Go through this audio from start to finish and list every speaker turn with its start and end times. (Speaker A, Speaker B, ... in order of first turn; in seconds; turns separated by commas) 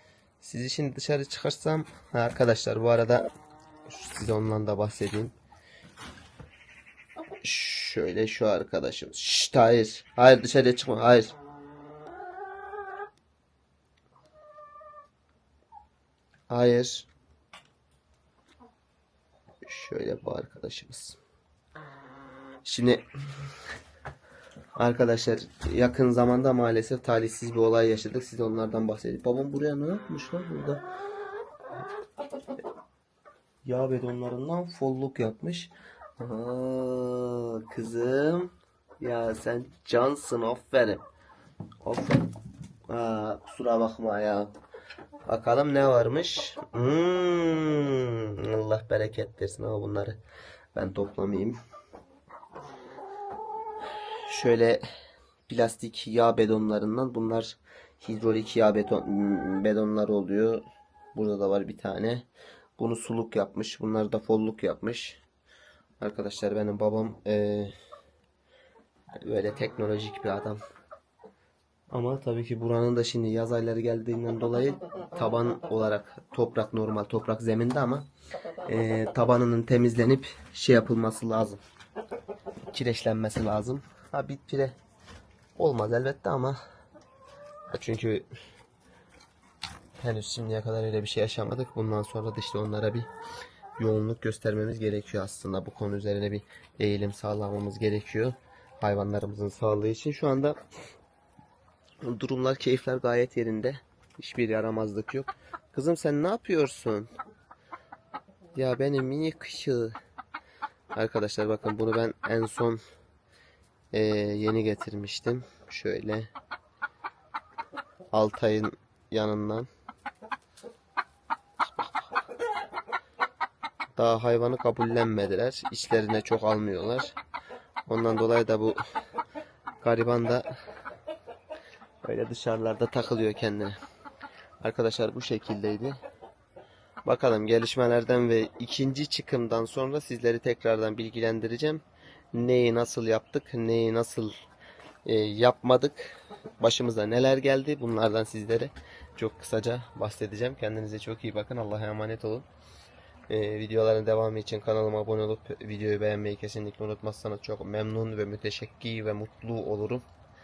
Speaker A: 0.4-3.3, Speaker A: 3.9-5.3, Speaker A: 7.4-11.3, Speaker A: 16.5-17.1, Speaker A: 19.6-21.2, Speaker A: 22.6-23.1, Speaker A: 24.8-30.9, Speaker A: 33.6-41.0, Speaker A: 41.8-42.3, Speaker A: 42.9-44.5, Speaker A: 45.3-50.2, Speaker A: 50.8-51.6, Speaker A: 54.3-54.8, Speaker A: 55.5-62.3, Speaker A: 62.8-65.2, Speaker A: 66.0-67.7, Speaker A: 69.2-70.6, Speaker A: 71.9-78.1, Speaker A: 78.7-81.6, Speaker A: 82.7-84.8, Speaker A: 85.6-86.6, Speaker A: 87.7-88.3, Speaker A: 90.0-93.1, Speaker A: 93.8-100.6, Speaker A: 102.0-107.1, Speaker A: 108.5-110.0, Speaker A: 111.0-112.8, Speaker A: 113.9-116.3, Speaker A: 118.1-119.7, Speaker A: 121.6-122.1, Speaker A: 124.0-127.2, Speaker A: 127.9-128.8, Speaker A: 129.8-130.5, Speaker A: 132.0-133.8, Speaker A: 134.6-136.0, Speaker A: 137.1-144.3, Speaker A: 145.1-152.5, Speaker A: 153.3-160.0